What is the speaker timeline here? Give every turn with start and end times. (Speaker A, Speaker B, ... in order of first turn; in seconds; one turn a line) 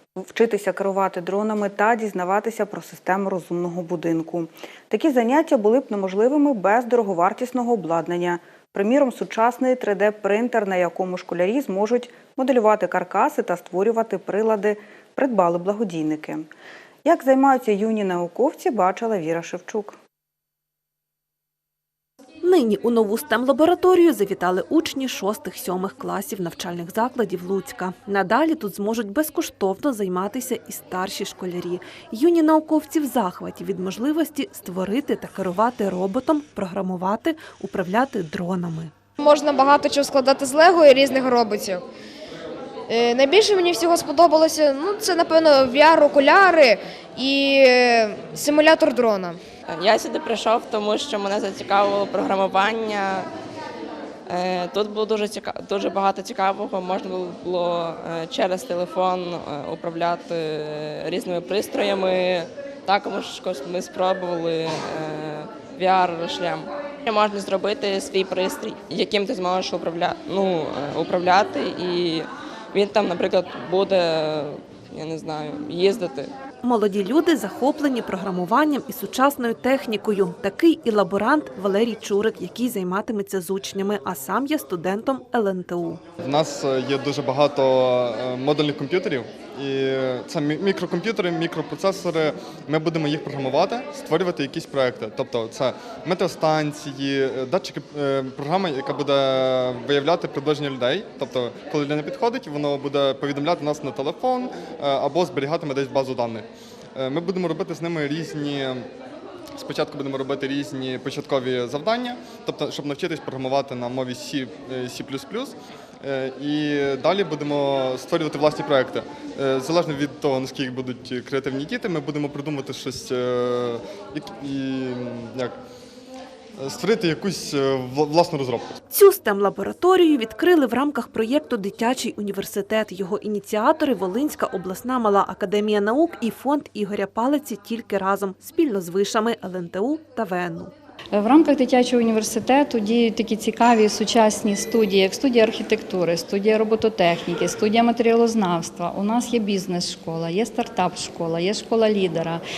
Speaker A: 0.2-16.5
Speaker A: 17.0-20.0
Speaker B: 22.4-38.9
Speaker C: 39.2-41.8
Speaker C: 42.9-49.4
Speaker D: 49.7-53.3
Speaker D: 54.3-76.3
Speaker B: 76.6-86.0
Speaker E: 86.2-108.9
Speaker E: 109.6-125.5
Speaker E: 126.6-128.8
Speaker B: 128.9-140.7
Speaker F: 141.1-152.4